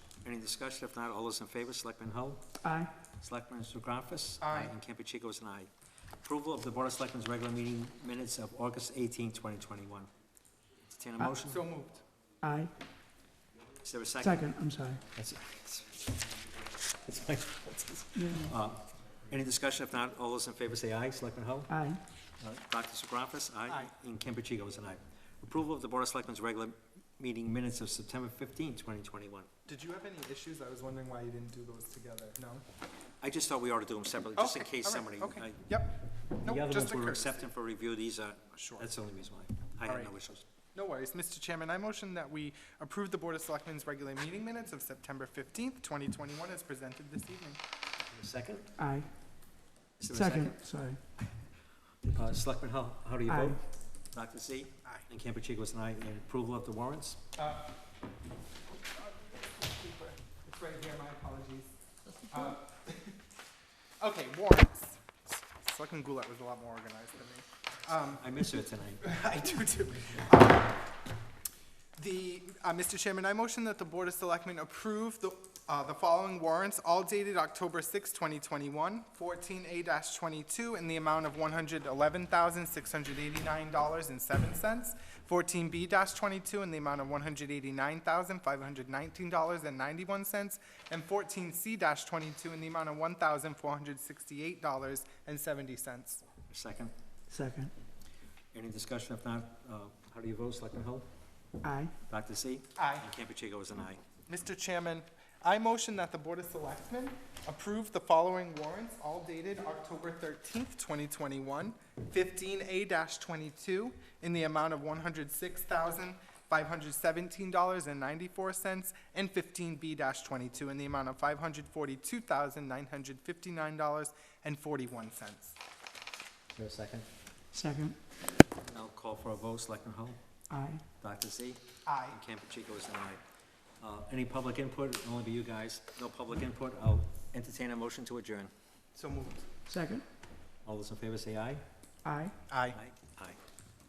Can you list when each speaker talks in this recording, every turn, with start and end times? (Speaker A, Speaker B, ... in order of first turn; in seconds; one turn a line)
Speaker A: 0.2-2.6
Speaker B: 2.6-2.9
Speaker A: 3.2-5.7
Speaker C: 4.4-4.7
Speaker A: 6.2-10.1
Speaker A: 10.8-11.6
Speaker C: 11.4-12.0
Speaker B: 12.4-12.7
Speaker A: 13.8-14.5
Speaker B: 14.2-15.1
Speaker A: 15.1-16.1
Speaker A: 17.0-21.8
Speaker B: 18.1-18.5
Speaker B: 21.7-22.0
Speaker A: 22.4-29.5
Speaker C: 29.7-32.6
Speaker A: 33.2-35.6
Speaker C: 34.4-37.4
Speaker A: 36.4-40.5
Speaker C: 38.5-38.9
Speaker C: 39.8-40.1
Speaker C: 40.7-47.6
Speaker A: 48.1-48.7
Speaker B: 48.8-49.1
Speaker A: 50.0-51.4
Speaker B: 50.1-51.0
Speaker A: 52.1-53.6
Speaker B: 53.3-53.6
Speaker A: 54.1-57.2
Speaker C: 57.4-57.7
Speaker C: 59.0-61.7
Speaker C: 62.2-63.2
Speaker C: 64.0-68.3
Speaker A: 68.0-69.1
Speaker C: 69.0-70.9
Speaker C: 72.0-96.2
Speaker A: 96.5-96.9
Speaker B: 97.3-97.7
Speaker A: 98.5-101.1
Speaker B: 101.6-101.9
Speaker A: 102.1-104.0
Speaker C: 102.8-103.1
Speaker C: 104.3-125.6
Speaker A: 126.5-127.1
Speaker B: 127.5-128.0
Speaker A: 128.7-130.2
Speaker B: 130.5-130.8
Speaker A: 131.0-133.2
Speaker C: 131.8-132.2
Speaker A: 133.8-138.5
Speaker C: 138.9-139.5
Speaker B: 139.7-140.0
Speaker A: 140.6-141.6
Speaker B: 142.0-142.3
Speaker C: 142.5-142.8
Speaker A: 142.7-143.4